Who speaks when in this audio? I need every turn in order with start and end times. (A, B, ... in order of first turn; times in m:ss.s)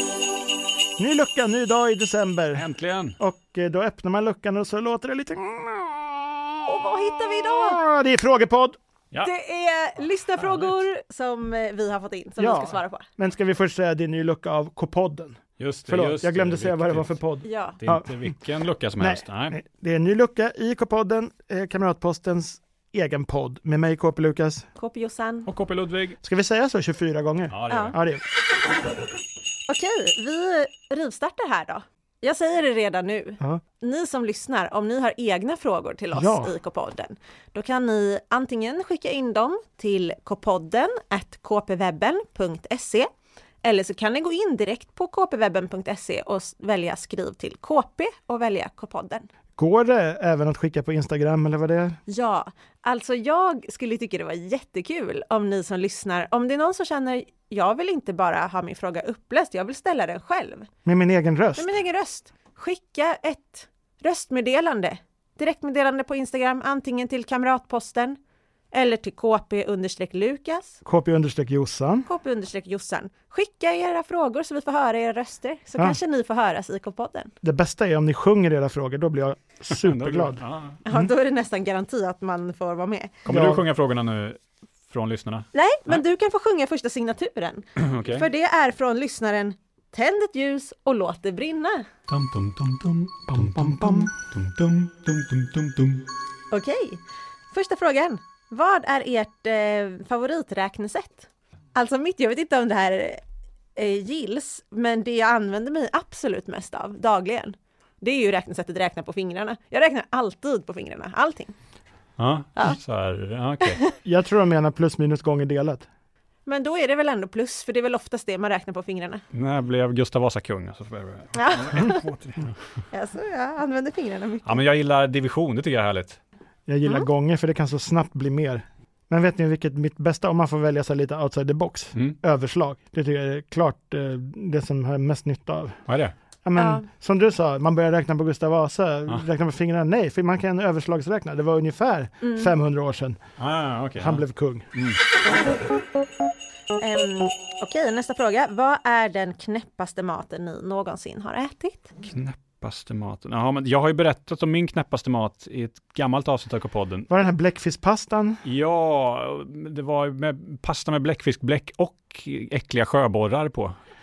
0:01.0-0:02.6 A
0:02.5-0:03.2 B
0:03.2-0:06.4 A
0:06.7-0:07.8 C
0:07.5-0:08.8 A
0:09.2-0:13.1 C
0:10.4-0:10.7 B
0:12.4-0:18.3 A
0:15.6-0:17.1 B
0:17.4-0:17.8 C
0:17.8-0:19.6 B
0:19.0-0:24.7 A
0:24.8-0:25.5 C
0:25.5-0:26.2 B
0:26.2-0:28.2 A
0:27.5-0:28.0 B
0:27.7-0:28.0 C
0:29.7-0:43.1 C
0:36.1-0:36.5 A
0:43.6-0:49.3 C
0:49.6-0:52.0 A
0:52.1-1:00.7 C
1:00.9-1:01.7 A
1:01.6-1:08.2 C
1:08.7-1:10.8 C
1:10.8-1:12.1 A
1:12.1-1:17.3 C
1:17.4-1:21.1 A
1:19.7-1:20.8 B
1:20.8-1:23.2 C
1:23.2-1:26.0 B
1:23.3-1:23.6 A
1:25.5-1:31.9 C
1:27.8-1:28.3 B
1:32.1-1:36.1 B
1:33.3-1:34.1 A
1:36.5-1:43.2 C
1:43.8-1:51.5 C
1:52.2-1:53.8 B
1:53.6-1:54.0 C
1:54.0-1:55.9 A
1:56.5-1:59.2 C
1:59.3-2:02.5 B
2:01.3-2:02.1 C
2:02.9-2:04.6 C
2:04.4-2:06.2 B
2:06.7-2:15.8 A
2:15.9-2:16.1 B
2:16.4-2:23.2 A
2:16.6-2:16.8 C
2:22.2-2:22.5 C
2:23.4-2:24.2 B
2:24.0-2:24.7 A
2:26.8-2:31.9 C
2:32.0-2:37.1 B
2:37.1-2:38.4 A
2:38.4-2:43.8 B